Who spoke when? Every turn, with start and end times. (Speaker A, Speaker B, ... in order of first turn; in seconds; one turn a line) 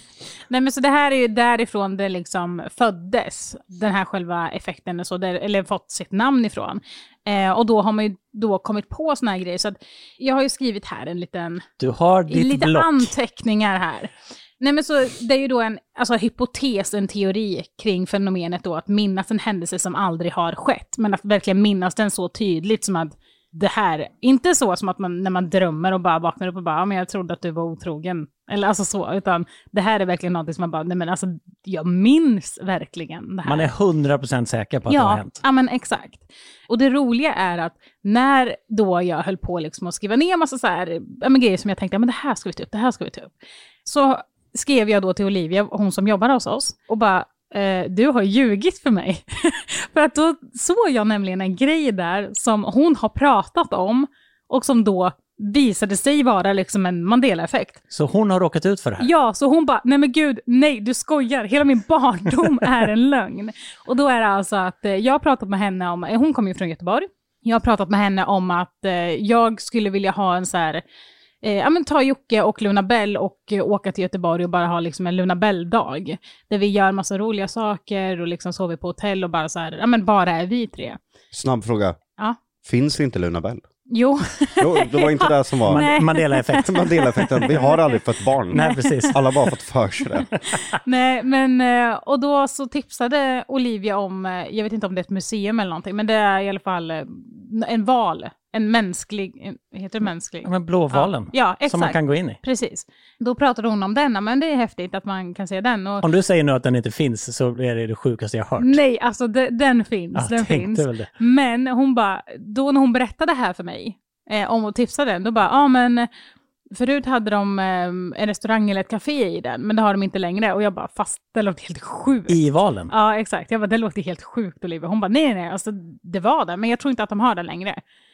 Speaker A: 0.5-11.6
Speaker B: 11.8-13.1
Speaker A: 12.3-33.7
Speaker B: 33.4-35.4
Speaker A: 34.9-43.3
Speaker A: 43.8-57.8
Speaker B: 57.9-59.1
Speaker A: 59.0-70.8
Speaker A: 71.4-81.0
Speaker C: 81.3-82.0
Speaker C: 82.6-83.6
Speaker A: 83.9-88.0
Speaker C: 84.6-85.8
Speaker B: 85.7-86.7
Speaker C: 86.6-88.6
Speaker B: 88.5-89.2
Speaker A: 88.5-89.3
Speaker C: 89.1-90.2
Speaker A: 90.5-106.0
Speaker B: 100.4-102.4
Speaker B: 106.0-108.8
Speaker A: 108.6-116.1
Speaker B: 110.1-111.1
Speaker A: 116.7-127.8
Speaker B: 122.3-122.9